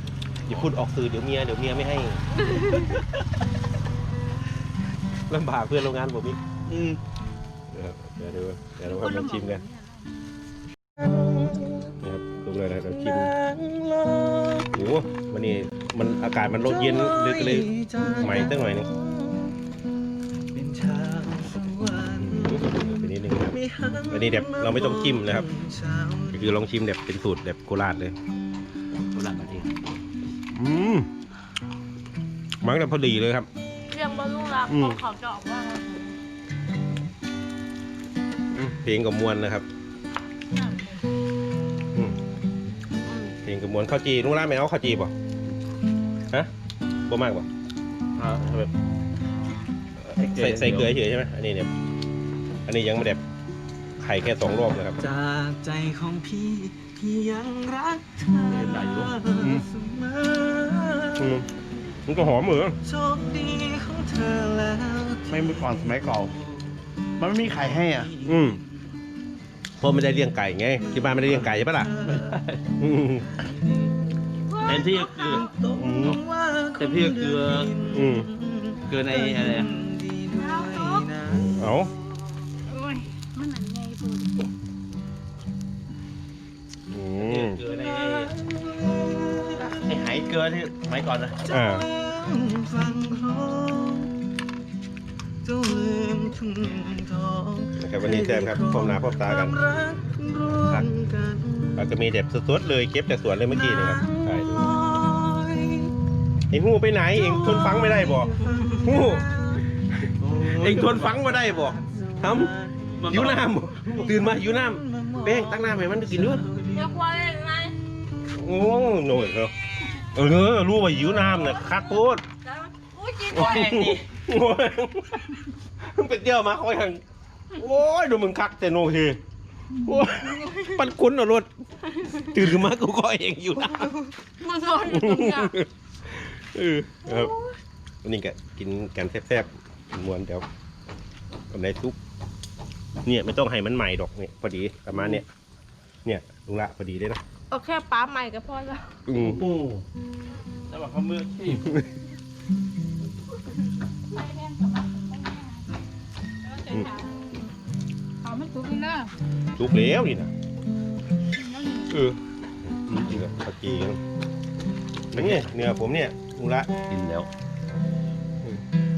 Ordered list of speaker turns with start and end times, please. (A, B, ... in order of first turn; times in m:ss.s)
0:00.4-0:02.2 A
0:02.5-0:02.9 B
0:05.3-0:06.4 A
0:06.7-0:07.0 C
0:07.7-0:09.6 A
0:08.8-0:10.1 D
0:11.4-0:11.8 E
0:12.0-0:13.3 A
0:12.9-0:14.8 E
0:14.7-0:18.9 A
0:16.6-0:19.6 E
0:20.5-0:26.4 E
0:22.2-0:23.6 A
0:24.1-0:25.5 A
0:26.3-0:28.2 A
0:29.0-0:29.9 C
0:30.5-0:31.1 A
0:32.6-0:33.5 A
0:33.9-0:36.2 B
0:34.7-0:35.0 A
0:38.5-0:39.6 A
0:40.5-0:41.0 D
0:43.1-0:43.3 B
0:43.4-0:45.1 A
0:47.1-0:47.5 A
0:48.2-0:48.7 C
0:50.0-0:51.7 A
0:50.2-0:51.0 C
0:52.6-0:53.2 A
0:54.0-0:55.0 A
0:55.0-1:01.4 E
0:58.5-0:59.1 C
0:59.4-0:59.6 A
1:01.2-1:01.5 A
1:02.0-1:02.8 A
1:02.8-1:06.8 E
1:05.3-1:06.3 C
1:07.2-1:08.1 C
1:07.3-1:08.8 E
1:08.2-1:08.6 A
1:09.8-1:11.9 A
1:10.8-1:12.4 E
1:12.1-1:12.6 C
1:12.8-1:13.2 A
1:13.0-1:14.0 E
1:14.5-1:15.4 B
1:14.6-1:15.5 C
1:14.6-1:22.2 E
1:15.8-1:16.2 A
1:16.8-1:17.7 C
1:17.9-1:18.3 A
1:18.9-1:19.7 C
1:20.4-1:21.0 B
1:21.2-1:21.9 A
1:22.6-1:24.5 D
1:26.9-1:27.6 A
1:27.2-1:28.3 C
1:27.7-1:29.9 E
1:29.6-1:31.4 C
1:31.5-1:34.1 E
1:31.5-1:31.9 A
1:35.4-1:41.9 E
1:37.8-1:39.6 A
1:40.5-1:40.9 A
1:41.8-1:44.7 A
1:43.4-1:45.9 E
1:46.5-1:49.2 A
1:47.1-1:49.7 E
1:49.9-1:52.5 A
1:50.2-1:53.3 E
1:53.0-1:54.2 C
1:53.1-1:56.4 A
1:53.8-1:57.0 E
1:56.7-1:57.7 B
1:58.3-1:59.5 A
2:00.1-2:02.2 A
2:01.0-2:04.0 B
2:03.3-2:07.0 A
2:03.3-2:04.0 C
2:07.6-2:09.2 A
2:09.8-2:11.5 A
2:10.4-2:10.8 B
2:11.9-2:12.4 B
2:12.2-2:13.9 A
2:13.6-2:15.5 B
2:14.8-2:17.3 A
2:17.0-2:17.5 B
2:18.0-2:20.4 A
2:21.5-2:22.0 A
2:23.0-2:25.2 A
2:26.0-2:27.2 A
2:27.5-2:29.0 B
2:29.1-2:29.4 A
2:29.1-2:29.8 C
2:30.7-2:31.8 C
2:34.1-2:35.7 D
2:36.4-2:37.3 D
2:38.2-2:39.1 D
2:39.6-2:40.3 A
2:41.3-2:42.0 D
2:41.9-2:44.0 A
2:45.1-2:45.6 C
2:45.1-2:46.7 A
2:46.8-2:47.3 C